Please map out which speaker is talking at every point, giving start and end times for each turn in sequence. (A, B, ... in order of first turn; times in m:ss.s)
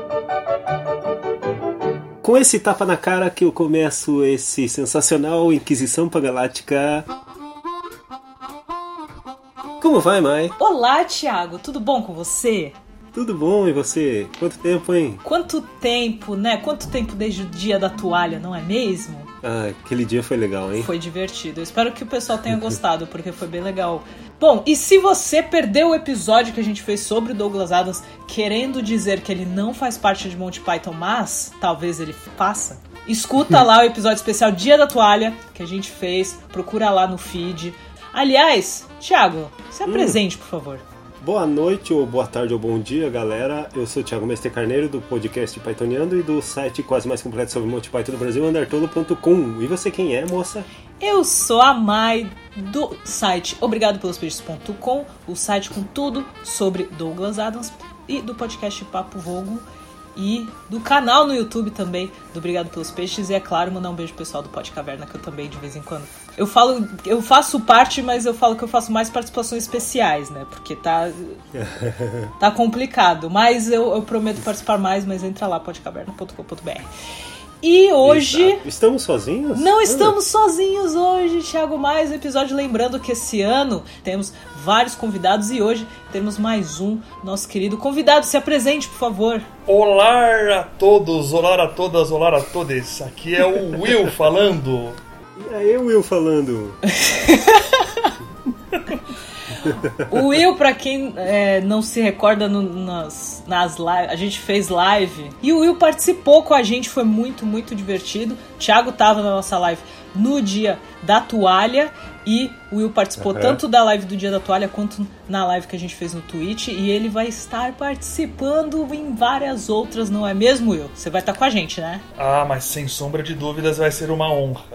0:02.2-0:07.1 A
0:09.8-0:10.6 A
0:10.6-0:12.8 B
0:13.1-0:15.2 A
0:15.2-0:19.3 B
0:19.4-0:20.9 A
0:20.8-0:40.8 B
0:39.9-0:40.2 A
0:41.2-0:50.7 A
0:51.0-1:11.4 B
1:11.5-1:12.3 A
1:12.4-1:16.9 B
1:17.6-1:18.6 B
1:18.0-1:20.2 A
1:19.5-1:29.5 B
1:29.7-1:35.0 C
1:35.4-1:36.8 A
1:36.9-1:38.1 B
1:39.6-2:02.0 B
1:39.7-1:40.0 A
1:53.2-1:53.6 A
2:02.2-2:04.6 C